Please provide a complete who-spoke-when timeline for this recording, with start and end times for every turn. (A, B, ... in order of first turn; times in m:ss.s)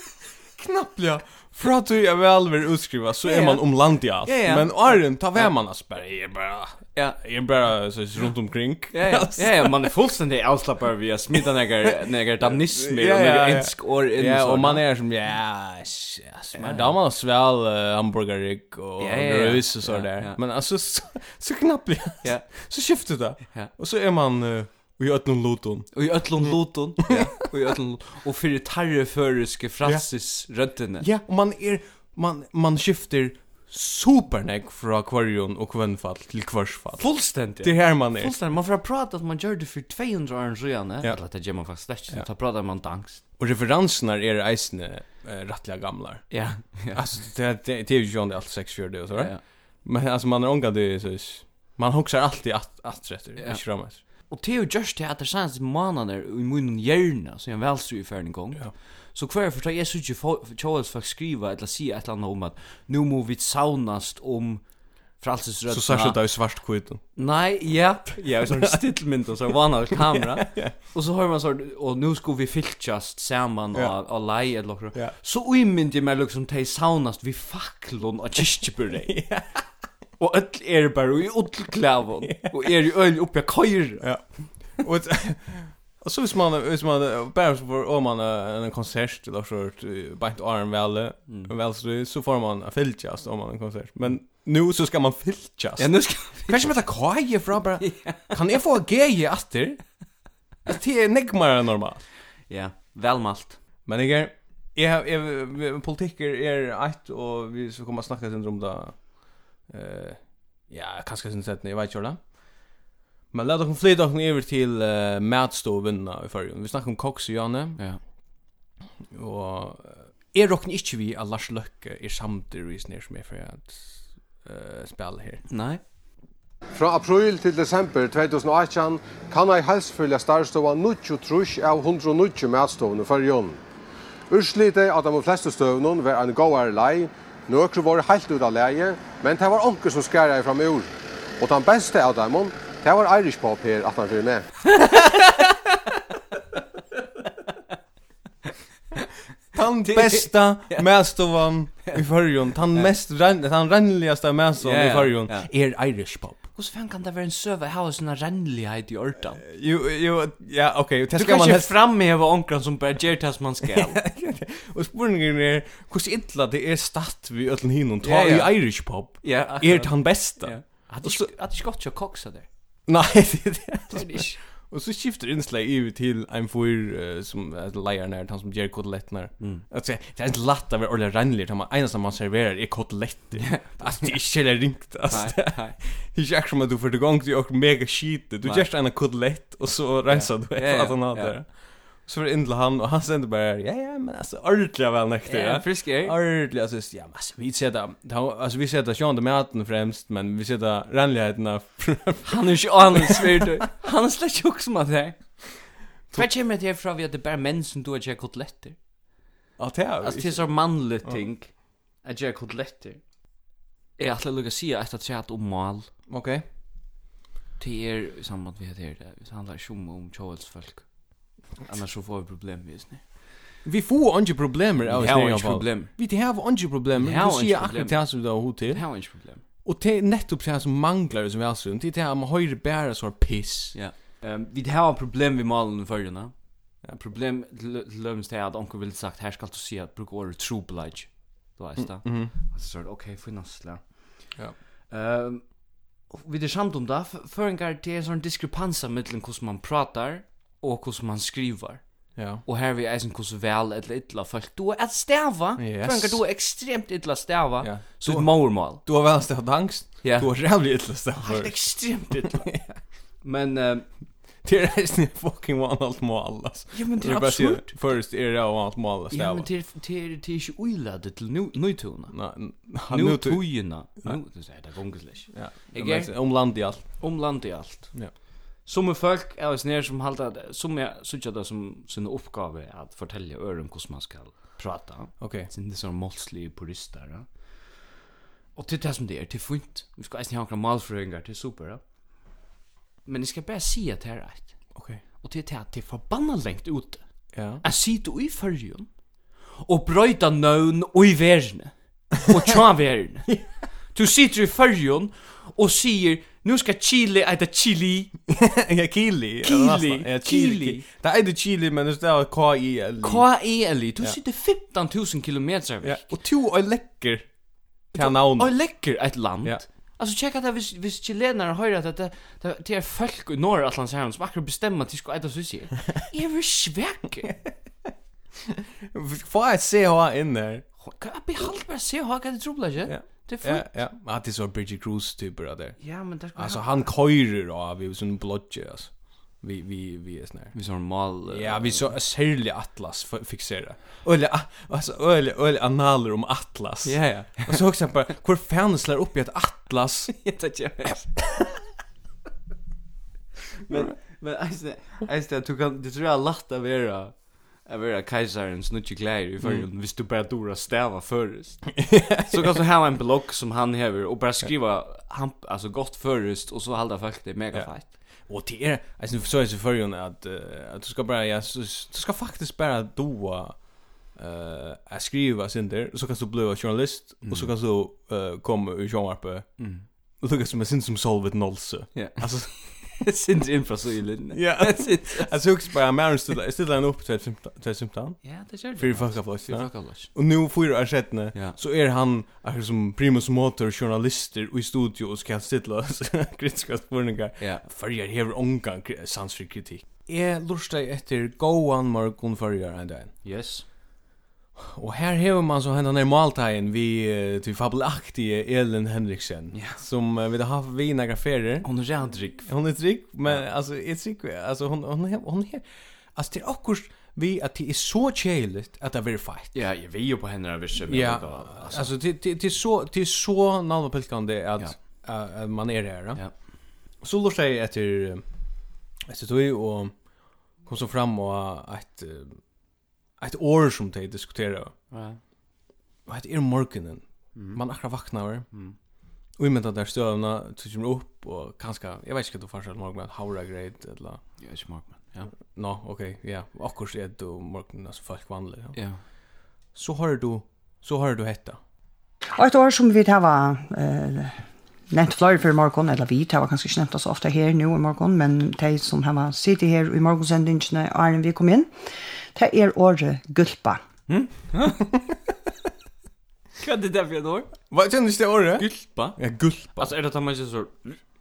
0:00.6-0:09.9 A
0:03.2-0:05.5 B
0:08.9-0:14.8 B
0:12.4-0:27.3 A
0:16.5-0:17.0 B
0:19.0-0:20.4 B
0:22.2-0:22.5 B
0:25.9-0:31.1 B
0:29.8-0:38.3 A
0:37.0-0:43.2 B
0:43.4-0:54.0 A
0:46.3-0:47.0 B
0:49.1-0:49.4 B
0:53.4-1:04.6 B
1:05.2-1:06.2 B
1:05.7-1:07.0 A
1:07.2-1:19.2 B
1:08.4-1:08.8 A
1:09.9-1:10.8 A
1:19.1-1:19.6 A
1:20.2-1:24.1 B
1:22.2-1:22.7 A
1:24.0-1:40.0 A
1:31.3-1:31.5 B
1:35.8-1:36.8 B
1:37.8-1:38.3 B
1:40.7-1:42.0 A
1:42.5-1:43.6 B
1:43.9-1:52.3 A
1:53.3-1:57.8 A
1:59.1-2:05.4 A
2:05.5-2:05.8 B
2:06.8-2:13.6 C
2:14.3-2:24.5 C
2:24.9-2:25.2 B
2:29.5-2:36.4 A
2:29.9-2:30.9 B
2:34.6-2:35.5 B
2:36.6-2:39.4 B
2:39.4-2:41.7 A
2:41.1-2:44.0 B
2:43.6-2:51.3 A
2:48.0-2:52.5 B
2:52.9-3:23.5 A
2:53.9-2:54.4 B
2:59.4-2:59.6 B
3:03.4-3:04.1 B
3:05.1-3:05.8 B
3:10.1-3:11.4 B
3:15.3-3:16.2 B
3:22.2-3:25.5 B
3:26.1-3:28.8 B
3:29.6-3:30.4 A
3:30.0-3:33.0 B
3:34.0-3:35.9 B
3:36.1-3:36.4 A
3:37.6-3:40.9 B
3:41.6-3:43.3 B
3:43.6-3:48.9 A
3:44.8-3:45.9 B
3:47.0-3:49.4 B
3:49.6-3:53.8 A
3:53.7-4:04.3 B
4:01.8-4:02.3 A
4:04.9-4:05.6 B
4:06.1-4:11.8 B
4:12.2-4:12.4 A
4:12.4-4:18.8 B
4:15.6-4:16.2 A
4:17.6-4:22.8 A
4:20.0-4:20.3 B
4:21.2-4:22.6 B
4:23.2-4:23.9 B
4:24.4-4:29.5 A
4:26.7-4:28.0 B
4:29.1-4:32.2 B
4:32.1-4:34.2 A
4:32.9-4:38.0 B
4:35.3-4:37.0 A
4:38.6-4:47.5 B
4:45.2-4:45.5 A
4:48.6-4:51.8 B
4:53.1-4:54.6 B
4:54.8-4:55.0 A
4:55.2-4:57.0 B
4:57.3-4:57.6 A
4:57.6-4:58.9 B
4:59.6-5:03.3 B
5:03.9-5:08.1 B
5:08.3-5:13.3 A
5:09.4-5:10.8 B
5:13.0-5:16.1 B
5:15.8-5:17.3 A
5:17.9-5:18.6 A
5:18.0-5:27.4 B
5:28.5-5:30.7 A
5:30.8-5:33.7 B
5:32.9-5:40.6 A
5:35.8-5:36.9 B
5:40.5-5:41.9 B
5:41.3-5:50.2 A
5:46.8-5:47.6 B
5:50.1-5:51.2 B
5:53.7-6:07.9 B
6:01.8-6:02.6 A
6:07.5-6:19.6 A
6:17.2-6:17.5 B
6:19.6-6:19.8 B
6:20.2-6:23.0 A
6:21.9-6:25.4 B
6:24.3-6:43.1 A
6:28.2-6:30.1 B
6:37.4-6:37.6 B
6:43.2-6:43.6 B
6:44.6-6:51.7 A
6:49.5-6:49.8 B
6:51.6-6:52.5 B
6:52.4-6:59.6 A
6:59.5-7:01.9 B
7:00.9-7:06.2 A
7:07.0-7:08.2 A
7:09.1-7:09.9 A
7:10.6-7:12.4 A
7:13.2-7:14.7 A
7:14.9-7:15.2 B
7:16.1-7:18.5 A
7:17.4-7:17.6 B
7:18.5-7:18.8 B
7:19.4-7:24.2 A
7:24.4-7:25.3 B
7:25.5-7:28.8 A
7:28.8-7:29.0 B
7:29.7-7:31.6 A
7:32.4-7:41.7 D
7:42.3-7:43.8 D
7:44.1-7:44.9 B
7:46.6-7:47.5 B
7:47.7-7:49.9 A
7:48.6-7:49.2 B
7:49.8-7:51.0 B